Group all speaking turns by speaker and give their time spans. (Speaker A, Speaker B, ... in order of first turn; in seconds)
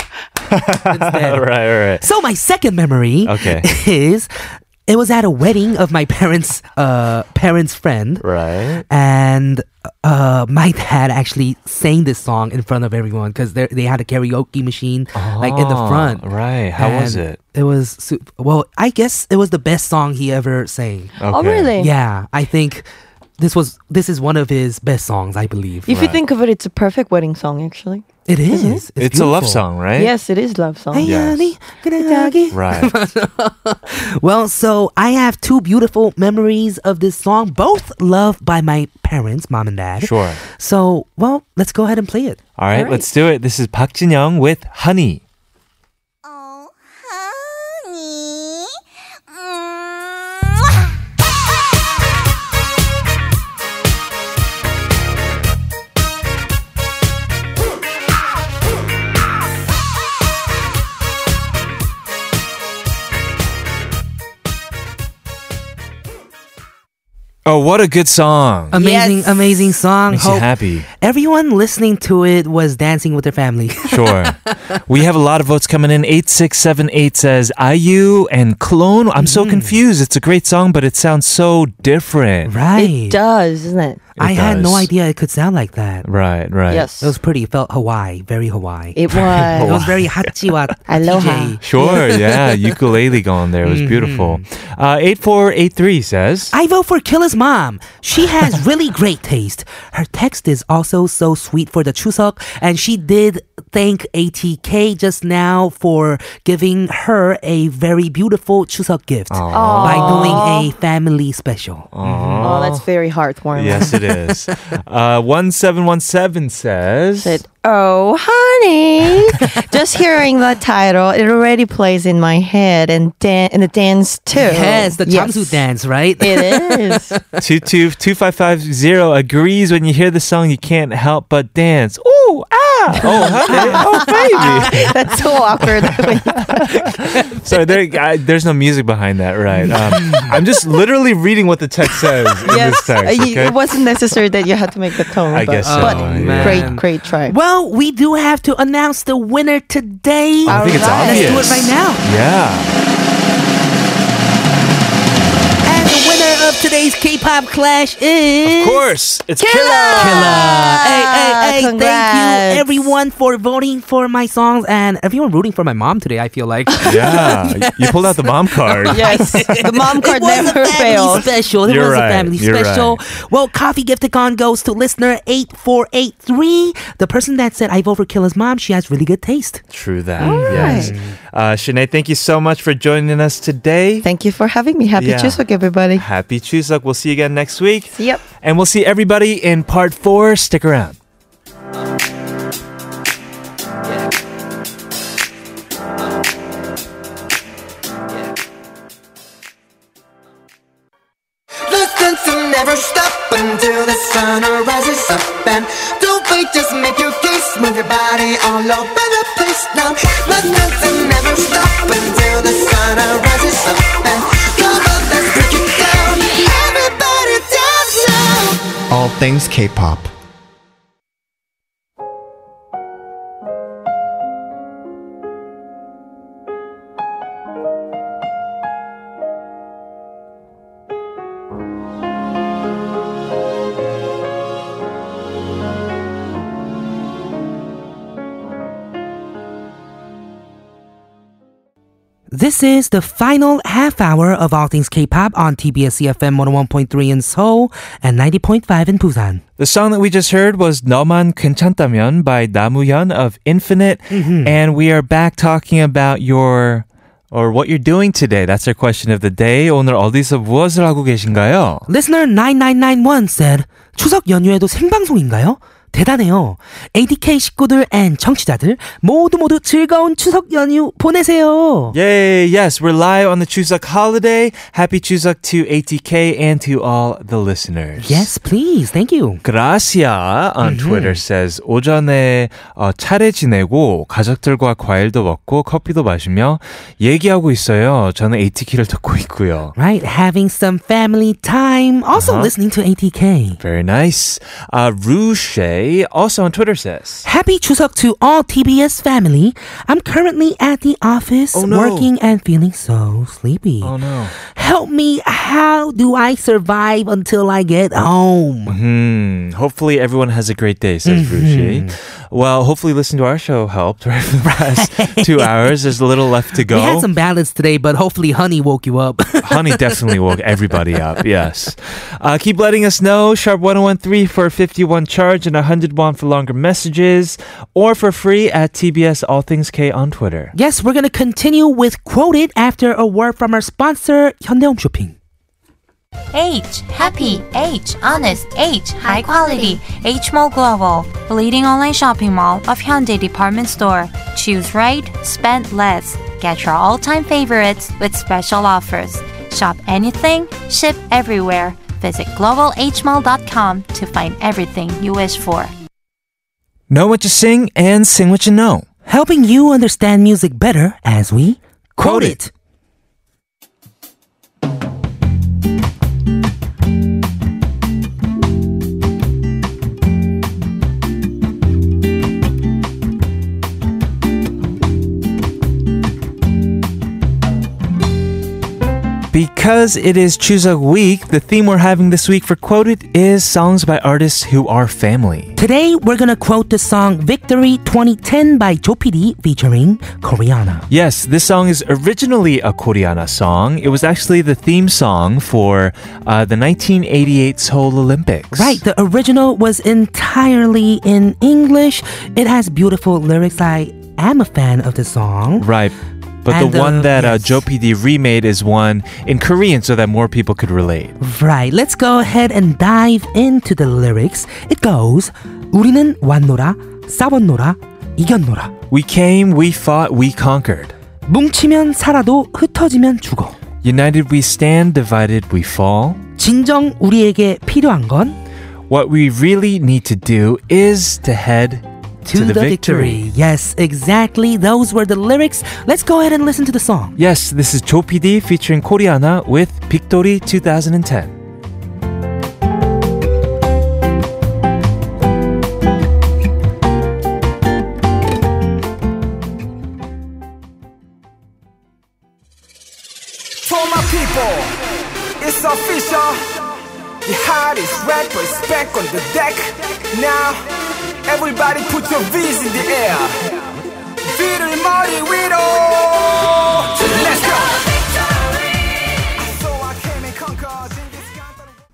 Speaker A: 0.4-2.1, 3.2-3.7, 8.2-8.8, 15.1-17.4, 21.2-21.7, 29.0-30.1, 31.0-31.5, 32.5-33.0, 40.0-40.4, 42.6-45.2, 67.5-68.8, 70.1-70.9, 73.9-82.5, 84.2-84.9, 86.0-86.9, 89.1-90.5, 91.6-96.5, 109.3-110.4, 111.9-112.9, 113.5-117.4, 127.4-143.6, 145.3-146.8, 150.5-152.8, 158.4-160.5, 166.8-169.4, 171.2-173.0, 179.7-184.1, 184.9-185.4, 185.9-191.0, 249.6-261.9, 271.9-278.3, 279.4-289.7, 292.1-292.5, 293.6-297.3, 301.5-302.1, 303.8-304.4, 308.7-317.1, 319.4-330.5, 356.9-358.9, 362.0-362.4, 379.3-385.6, 390.9-398.8, 405.6-411.2, 418.9-420.9, 423.8-426.2, 428.9-433.3, 437.2-441.4
Speaker B: 0.9-8.3, 8.9-16.2, 16.8-21.1, 21.8-22.9, 23.4-26.1, 28.3-29.6, 30.9-42.4, 68.7-74.3, 79.2-79.8, 82.5-83.2, 84.2-86.1, 87.0-89.0, 89.5-92.5, 93.6-94.4, 96.5-112.6, 124.3-127.2, 133.5-133.8, 139.6-140.3, 145.6-152.0, 155.7-158.8, 160.0-179.6, 180.2-181.2, 242.3-249.4, 254.1-254.6, 261.9-272.0, 278.0-279.4, 280.6-281.2, 289.8-293.6, 297.2-308.8, 311.1-311.9, 314.4-315.8, 316.6-320.0, 330.5-335.1, 359.1-362.5, 385.6-390.9, 398.5-405.7, 406.5-407.6, 411.2-418.7, 421.3-423.6, 426.4-428.4, 432.2-437.2
Speaker C: 21.3-21.9, 25.9-28.8, 30.0-31.2, 32.0-32.5, 42.7-43.0, 68.7-69.7, 82.8-84.0, 86.7-87.2, 89.0-89.8, 90.9-92.0, 109.5-110.7, 112.4-114.0, 117.2-125.6, 126.2-127.2, 133.4-136.9, 142.4-147.4, 150.5-151.5, 159.4-162.9, 168.9-171.3, 180.2-181.0, 184.0-186.1, 188.0-188.2
Speaker D: 201.7-220.1
Speaker E: 336.3-355.7
Speaker F: 453.6-460.7, 461.3-471.7